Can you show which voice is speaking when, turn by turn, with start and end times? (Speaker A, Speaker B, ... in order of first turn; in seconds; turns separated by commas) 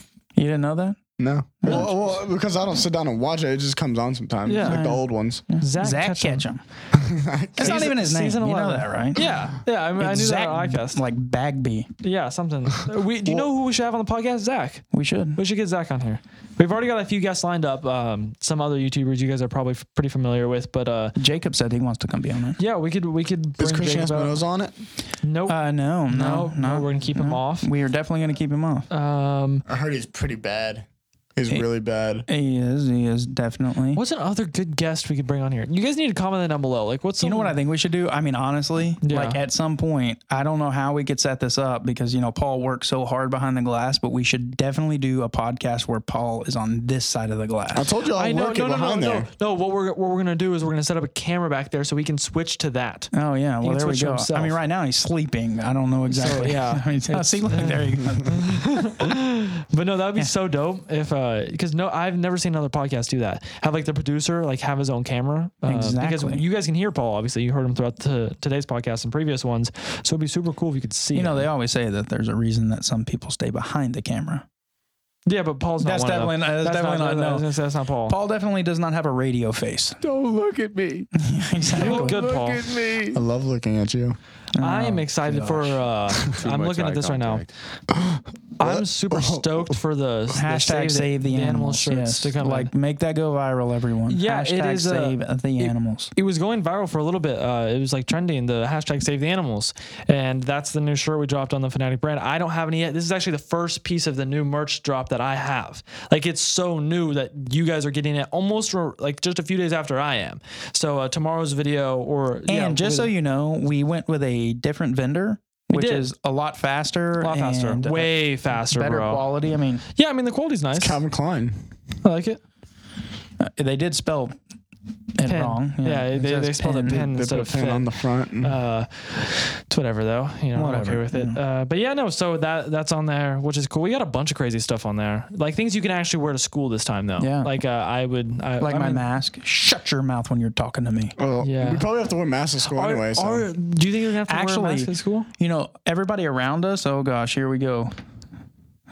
Speaker A: 0.3-1.0, Speaker B: 1.2-5.4, Speaker A: 1.6-1.9, Speaker C: 4.5-4.8, Speaker A: 4.6-6.6, Speaker C: 5.6-6.5, Speaker B: 6.9-8.0, Speaker A: 7.6-9.3, Speaker C: 7.6-11.0, Speaker A: 10.0-11.9, Speaker C: 12.0-21.2, Speaker A: 13.2-13.5, Speaker A: 14.9-15.4, Speaker A: 21.2-22.6, Speaker C: 22.6-24.4, Speaker B: 23.6-24.7, Speaker C: 25.2-27.7, Speaker A: 25.5-28.9, Speaker C: 28.9-29.6, Speaker B: 29.7-32.3, Speaker A: 32.3-34.0, Speaker C: 33.9-37.6, Speaker A: 37.2-47.9, Speaker C: 39.0-39.4, Speaker B: 47.7-49.3, Speaker C: 48.1-54.6, Speaker A: 53.1-59.0, Speaker C: 56.1-71.5, Speaker A: 65.7-66.4, Speaker A: 71.1-74.5, Speaker C: 75.3-78.2, Speaker A: 75.8-77.5, Speaker A: 78.1-80.0, Speaker D: 80.0-81.1, Speaker A: 81.2-82.2, Speaker D: 81.7-83.2, Speaker C: 81.7-82.6, Speaker B: 83.1-84.2, Speaker A: 84.6-85.8, Speaker C: 84.6-87.5, Speaker D: 86.3-87.5, Speaker B: 87.9-89.8, Speaker C: 88.6-92.7, Speaker A: 90.3-96.1, Speaker C: 94.1-113.1, Speaker A: 112.5-119.8, Speaker C: 115.7-116.1, Speaker C: 117.2-119.3, Speaker C: 120.0-121.0, Speaker B: 120.7-121.7, Speaker C: 122.0-122.4, Speaker A: 123.4-124.3, Speaker A: 125.2-127.0, Speaker C: 125.2-139.1, Speaker B: 126.9-128.5, Speaker A: 130.5-131.4, Speaker A: 137.2-137.5, Speaker A: 138.6-141.2, Speaker B: 141.2-143.5, Speaker C: 141.4-141.8, Speaker C: 142.7-145.3, Speaker A: 144.3-147.9